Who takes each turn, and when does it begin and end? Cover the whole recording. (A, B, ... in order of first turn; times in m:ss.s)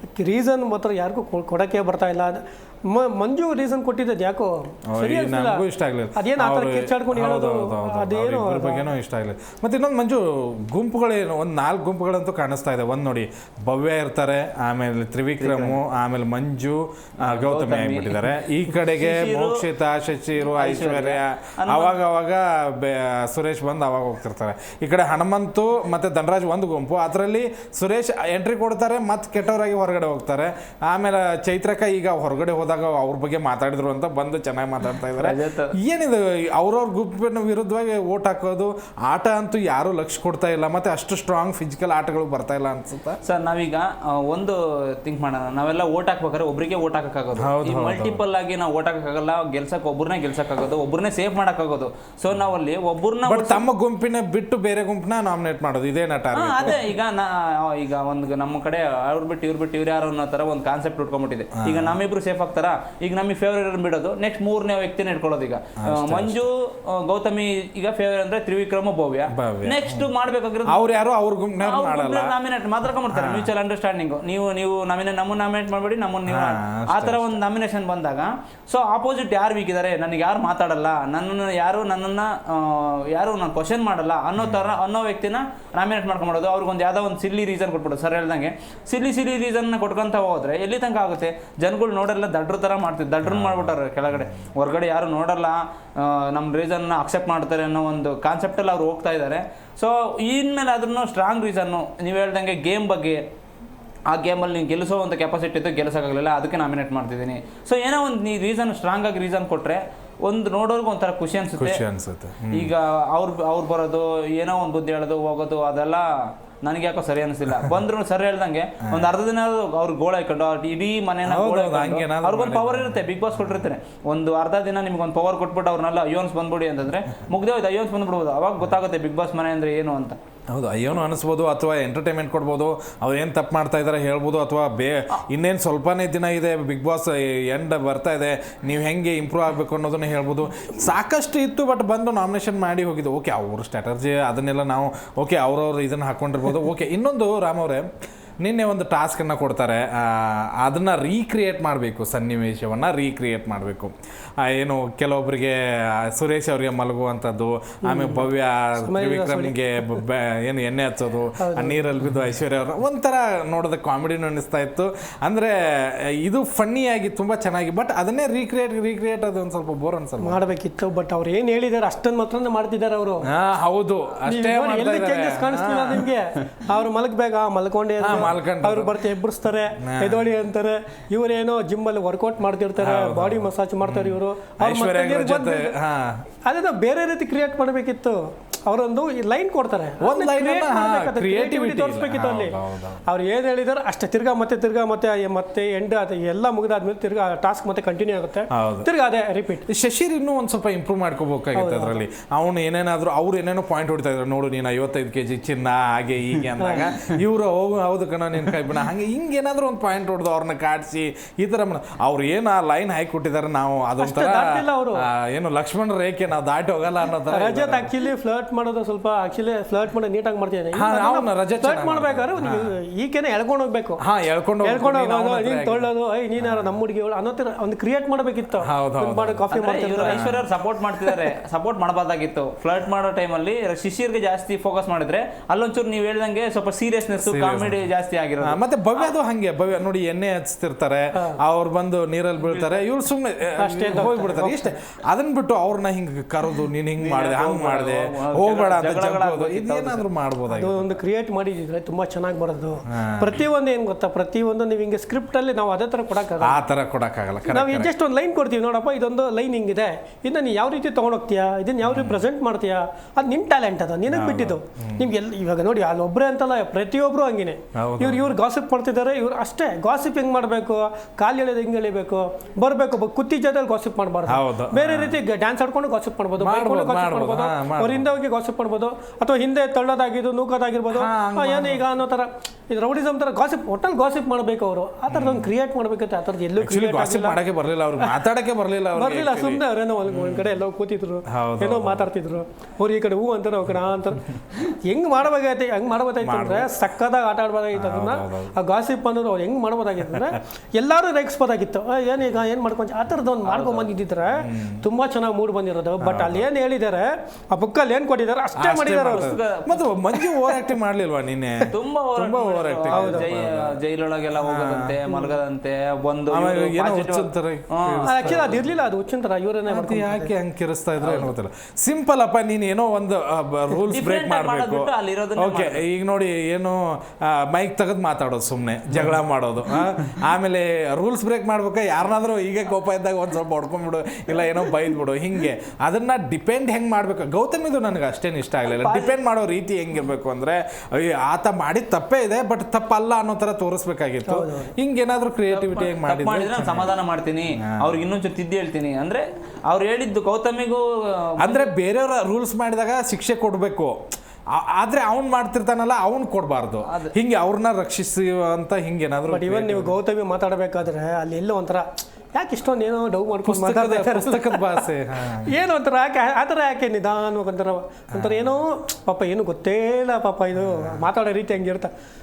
0:00.2-0:08.9 A
0:04.9-0:43.2 B
0:15.4-0:15.8 C
0:17.2-0:19.6 C
0:20.4-0:22.0 C
0:35.2-0:35.7 C
0:43.2-0:53.6 C
0:47.4-0:48.2 B
0:53.3-0:56.9 B
0:56.3-1:10.9 C
1:01.6-1:02.0 B
1:05.8-1:06.4 B
1:09.3-1:10.1 B
1:10.7-1:12.4 B
1:11.6-1:43.2 C
1:13.1-1:13.5 B
1:16.3-1:17.4 B
1:24.4-1:24.7 B
1:33.2-1:34.4 B
1:44.1-1:51.8 C
1:51.6-1:52.7 B
1:52.5-2:10.2 C
1:58.9-1:59.1 B
2:01.2-2:03.6 B
2:10.5-2:27.9 B
2:28.4-2:45.5 B
2:37.8-2:40.0 A
2:41.4-2:41.8 A
2:46.2-2:50.4 B
2:50.2-2:53.3 A
2:53.3-2:56.1 B
2:54.2-3:05.8 A
2:58.0-2:58.9 B
2:59.8-3:00.2 B
3:02.8-3:06.3 B
3:06.5-3:19.7 A
3:10.0-3:13.0 B
3:18.5-3:18.9 B
3:19.7-3:38.0 B
3:21.6-3:22.0 A
3:26.6-3:26.9 A
3:34.0-3:35.0 A
3:37.3-3:44.0 A
3:40.8-3:42.6 B
3:44.0-3:45.9 B
3:44.6-3:50.4 A
3:48.6-3:49.5 B
3:49.5-3:59.1 C
3:50.0-3:50.4 B
3:57.2-3:57.8 B
3:58.4-4:10.9 B
4:02.4-4:02.9 C
4:03.6-4:04.7 A
4:07.0-4:10.1 C
4:10.5-4:16.6 A
4:12.9-4:13.4 B
4:16.4-4:17.9 B
4:17.5-4:47.4 A
4:21.8-4:22.2 B
4:24.1-4:25.1 B
4:27.8-4:28.3 B
4:34.3-4:35.2 B
4:36.4-4:38.0 B
4:40.9-4:41.8 B
4:45.1-4:45.5 B
4:46.6-4:50.5 B
4:48.0-4:48.3 A
4:48.9-5:09.4 A
4:51.3-4:52.1 B
4:56.2-4:56.7 B
4:57.7-4:58.5 B
5:03.4-5:04.0 C
5:04.4-5:04.8 B
5:06.0-5:06.5 B
5:08.6-5:13.8 B
5:09.0-5:10.0 C
5:10.2-5:10.6 A
5:11.7-5:18.4 C
5:12.9-5:13.3 A
5:14.4-5:14.9 B
5:15.1-5:15.4 A
5:16.3-5:18.6 B
5:18.0-5:20.3 A
5:19.7-5:46.9 B
5:21.0-5:21.3 C
5:23.9-5:25.8 C
5:38.6-5:39.2 A
5:44.2-5:44.8 A
5:45.5-5:51.7 C
5:51.4-5:54.0 B
5:54.6-6:00.0 B
5:56.9-5:57.1 C
5:59.3-6:04.9 A
6:03.5-6:05.5 B
6:05.4-6:11.9 A
6:08.1-6:08.5 B